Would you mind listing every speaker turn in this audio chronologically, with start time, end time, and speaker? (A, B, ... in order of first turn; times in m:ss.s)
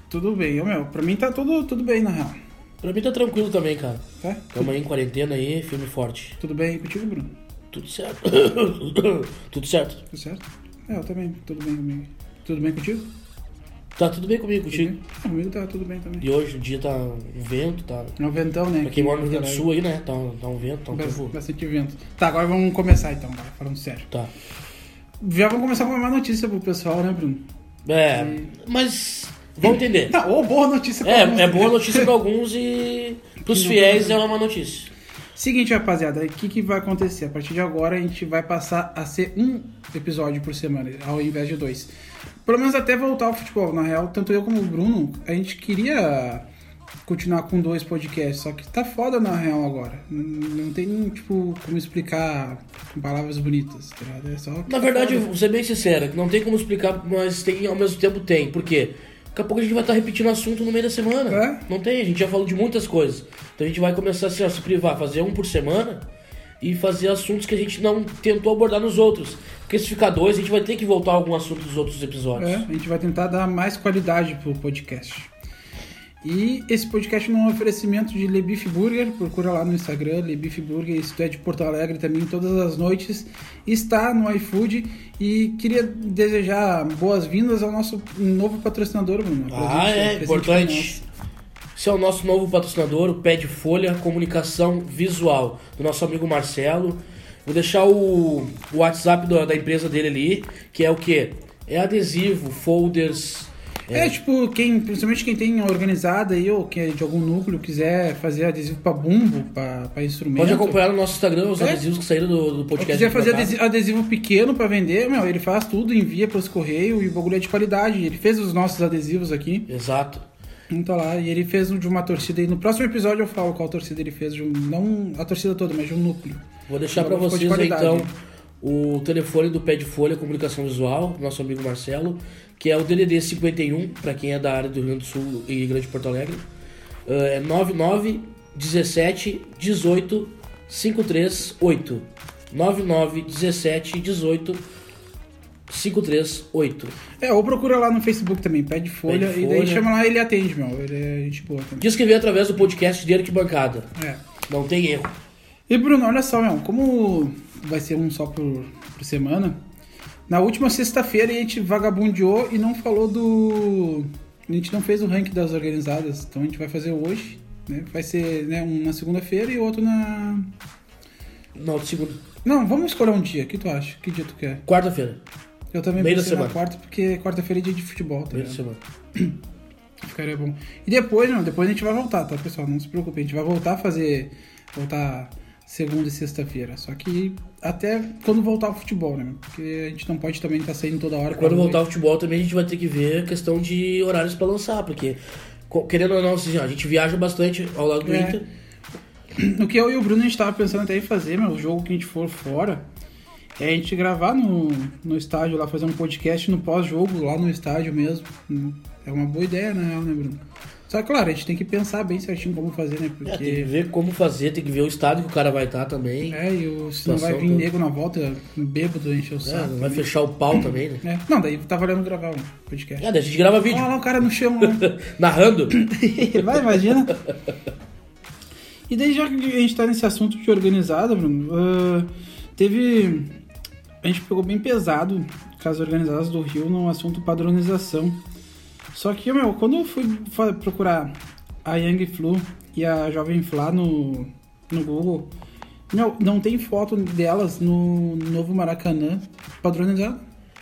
0:00.1-0:02.4 A
0:02.8-0:06.4 B
0:04.2-0:04.7 A
0:06.4-0:07.3 A
0:07.7-0:10.0 B
0:10.1-0:13.1 A
0:14.0-0:14.9 B
0:14.7-0:16.3 A
0:16.2-0:18.2 B
0:18.2-0:19.7 A
0:18.8-0:21.4 B
0:20.9-0:24.1 A
0:25.2-0:27.4 A
0:27.8-0:30.2 B
0:28.1-0:28.5 A
0:30.1-0:32.1 A
0:31.0-0:34.9 B
0:33.5-0:34.2 A
0:35.4-0:41.9 A
0:42.5-0:46.5 A
0:47.1-0:55.3 A
0:54.7-1:06.1 B
1:01.3-1:01.6 A
1:06.6-1:12.6 B
1:12.4-1:15.3 A
1:16.2-1:31.0 A
1:29.5-1:31.0 B
1:31.8-1:44.2 B
1:43.9-1:50.8 A
1:50.4-1:53.6 B
1:51.6-1:51.8 A
1:52.8-1:59.7 A
1:59.7-2:00.2 B
2:00.7-2:08.2 A
2:06.7-2:16.4 B
2:17.1-2:24.6 B
2:25.7-2:27.0 B
2:27.2-2:31.9 A
2:29.1-2:29.9 B
2:31.8-2:33.9 B
2:34.0-2:34.2 A
2:34.5-2:35.1 B
2:35.7-2:39.6 A
2:40.3-2:50.5 A
2:51.6-2:52.2 B
2:52.4-2:54.6 A
2:54.7-2:55.2 B
2:55.7-2:58.6 A
2:56.0-2:56.6 B
2:58.3-2:58.8 B
3:00.0-3:11.8 A
3:11.3-3:18.5 B
3:18.0-3:18.4 A
3:19.4-3:22.9 A
3:23.6-3:33.7 A
3:33.2-3:36.4 B
3:36.3-3:43.1 A
3:37.0-3:37.7 B
3:39.4-3:41.0 B
3:43.0-3:44.0 B
3:43.7-3:45.0 A
3:44.6-3:47.3 B
3:45.7-3:47.2 A
3:48.9-3:53.4 A
3:54.0-3:58.2 A
3:58.9-4:05.3 A
4:05.9-4:10.2 A